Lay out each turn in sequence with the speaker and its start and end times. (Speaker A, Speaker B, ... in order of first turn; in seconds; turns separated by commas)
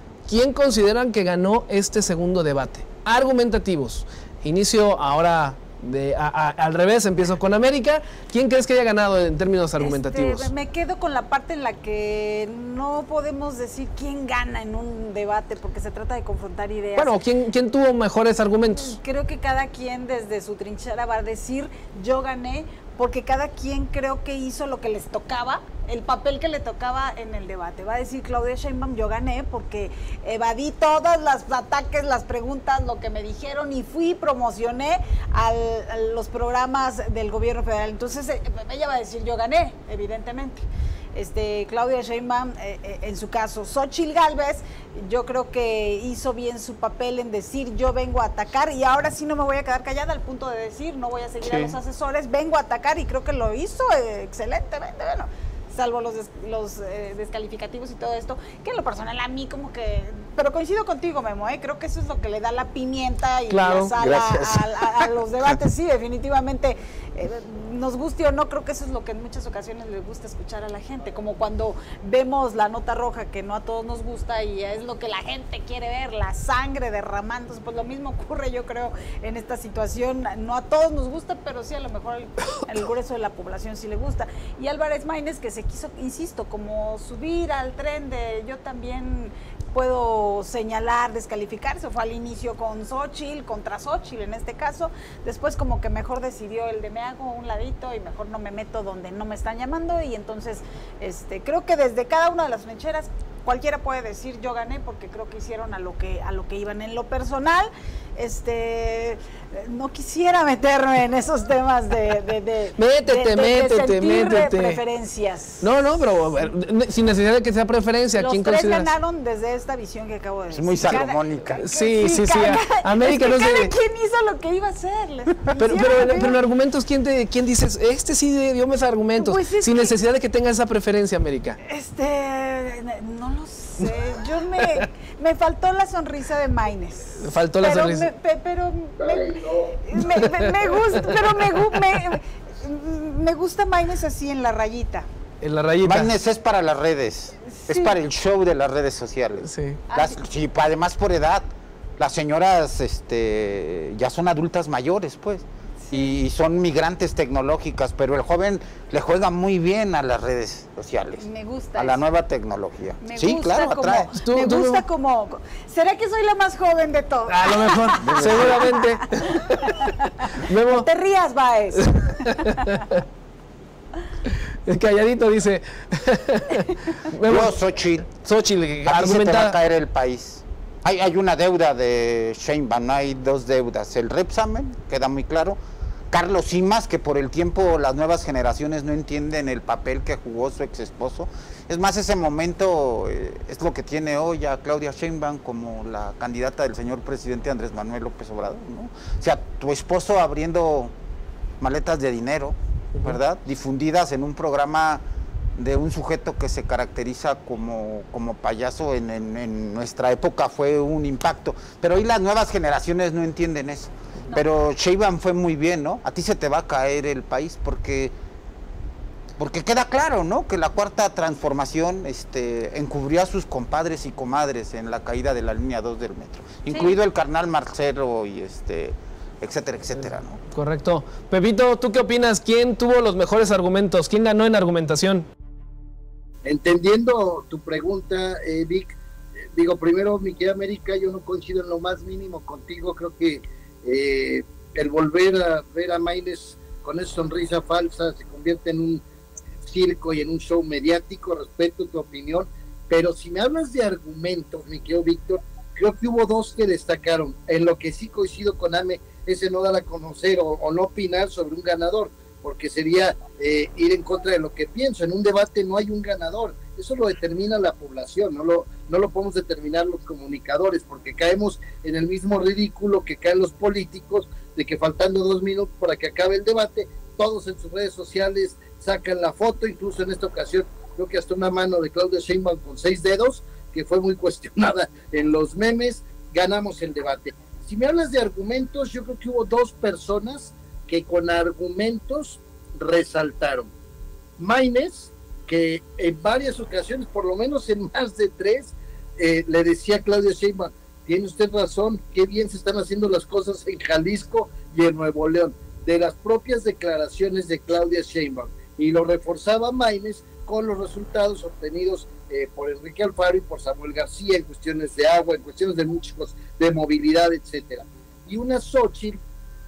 Speaker A: 0.3-10.5, Speaker B: 9.8-17.1, Speaker A: 16.9-19.0, Speaker B: 18.6-40.6, Speaker B: 41.1-115.7, Speaker A: 51.4-51.8, Speaker A: 63.5-63.9, Speaker C: 64.0-65.6, Speaker A: 112.8-114.8, Speaker A: 115.6-118.9, Speaker B: 118.2-126.4, Speaker C: 120.5-121.6, Speaker A: 121.5-123.7, Speaker A: 125.5-131.6, Speaker B: 129.2-129.9, Speaker B: 131.6-145.1, Speaker A: 137.2-138.1, Speaker D: 139.0-139.8, Speaker A: 140.1-141.4, Speaker A: 145.4-146.1, Speaker C: 145.8-164.1, Speaker B: 147.5-147.9, Speaker A: 149.4-149.8, Speaker B: 149.9-150.2, Speaker B: 155.8-156.1, Speaker B: 161.2-162.0, Speaker B: 163.0-172.7, Speaker A: 163.9-164.8, Speaker A: 167.3-170.9, Speaker C: 168.0-168.7, Speaker A: 172.0-173.0, Speaker A: 174.3-177.5, Speaker C: 177.2-178.1, Speaker A: 178.1-179.6, Speaker C: 178.8-185.6, Speaker C: 186.1-200.9, Speaker C: 201.6-205.0, Speaker C: 205.6-218.1, Speaker C: 219.4-230.4, Speaker B: 226.7-226.9, Speaker A: 230.0-235.2, Speaker D: 236.4-239.0, Speaker D: 239.5-249.0, Speaker D: 249.6-293.7, Speaker D: 294.4-319.2